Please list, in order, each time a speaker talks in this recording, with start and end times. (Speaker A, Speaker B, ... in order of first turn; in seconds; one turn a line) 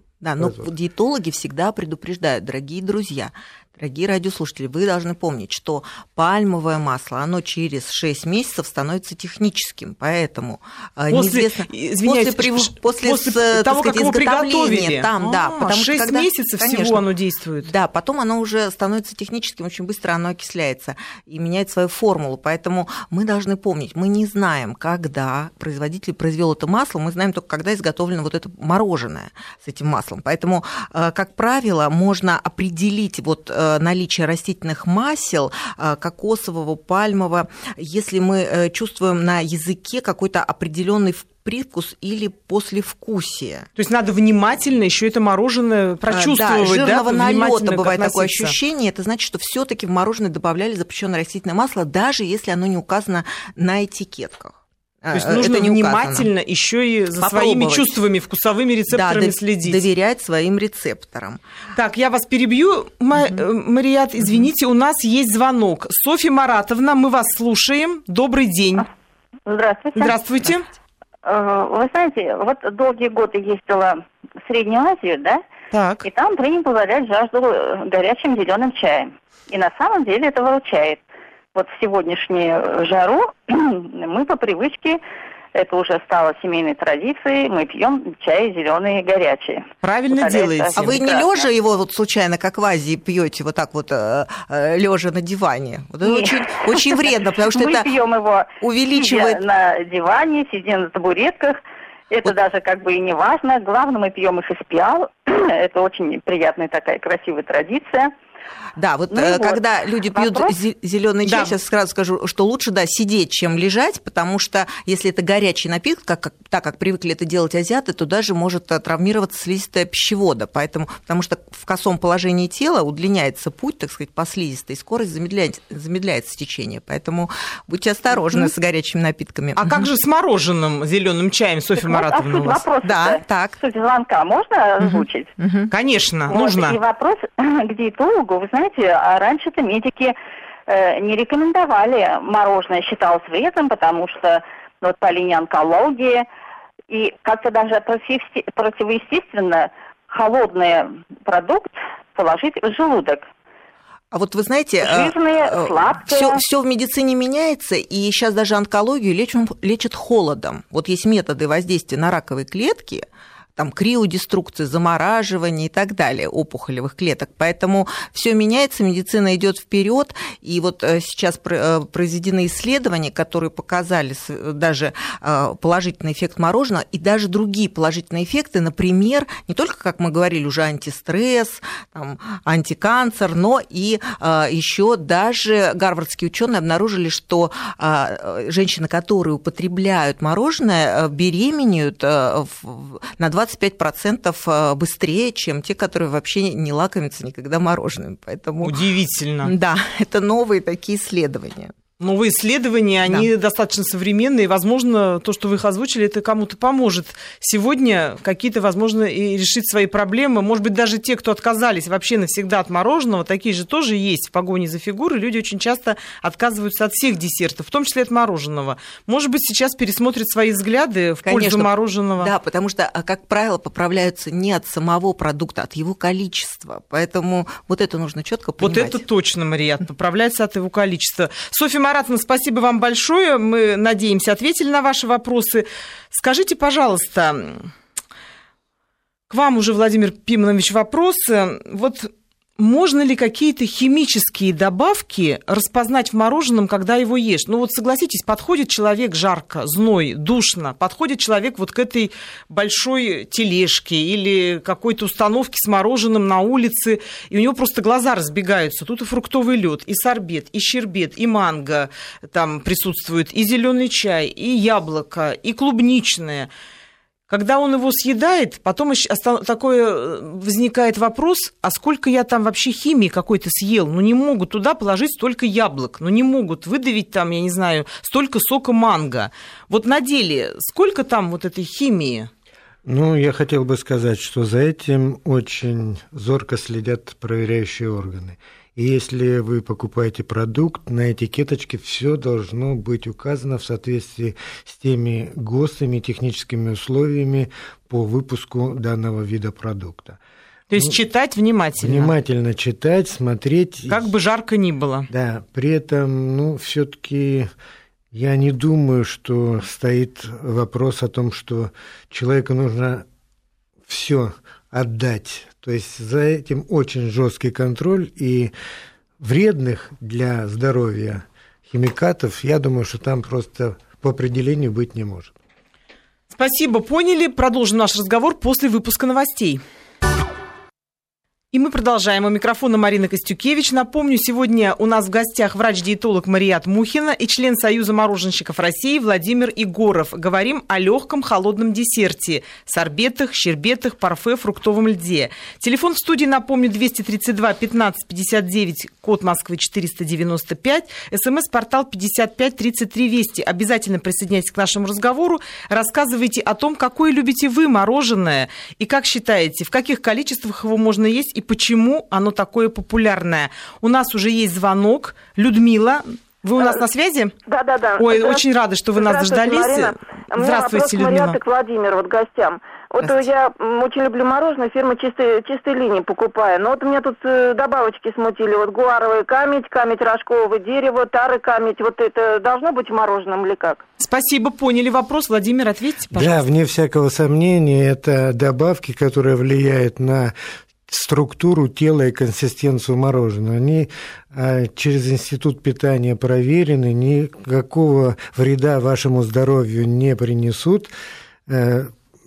Speaker A: 0.2-17.1
Speaker B: 0.4-0.7
Speaker C: 11.1-17.7
Speaker A: 17.6-43.7
Speaker C: 43.8-48.5
Speaker A: 46.1-56.3
Speaker C: 55.1-59.8
Speaker A: 57.2-58.0
Speaker A: 58.9-61.4
Speaker C: 61.7-68.9
Speaker D: 69.5-70.1
Speaker C: 69.9-70.7
Speaker D: 71.2-75.4
Speaker C: 75.7-76.1
Speaker D: 76.0-81.0
Speaker D: 81.5-85.0
Speaker D: 85.5-91.3
Speaker C: 89.8-90.9
Speaker A: 90.8-97.9
Speaker D: 96.0-108.1
Speaker A: 98.6-99.4
Speaker A: 108.8-129.9
Speaker D: 109.1-109.6
Speaker D: 110.1-110.5
Speaker C: 111.2-111.5
Speaker C: 129.6-132.6
Speaker D: 131.8-135.3
Speaker A: 132.8-133.6
Speaker A: 134.8-135.7
Speaker C: 135.7-136.8
Speaker D: 136.3-140.1
Speaker D: 140.7-146.2
Speaker D: 146.9-153.3
Speaker A: 154.1-163.0
Speaker D: 154.8-156.4
Speaker A: 163.6-198.8
Speaker C: 198.6-199.5
Speaker A: 199.4-201.7
Speaker C: 202.0-222.3
Speaker A: 221.2-229.0
Speaker C: 228.6-237.7
Speaker C: 239.3-266.5
Speaker C: 267.3-282.3
Speaker B: 282.8-300.2
Speaker C: 300.7-302.1
Speaker B: 301.8-304.1
Speaker C: 303.9-305.1
Speaker B: 305.1-307.5
Speaker B: 308.1-313.1
Speaker B: 313.9-318.5
Speaker B: 319.2-325.3
Speaker C: 326.3-329.6
Speaker C: 331.5-367.3
Speaker E: 367.4-368.4
Speaker C: 368.0-371.4
Speaker E: 368.9-383.8
Speaker C: 384.0-386.4
Speaker B: 386.1-390.3
Speaker B: 390.9-400.9
Speaker B: 401.5-401.9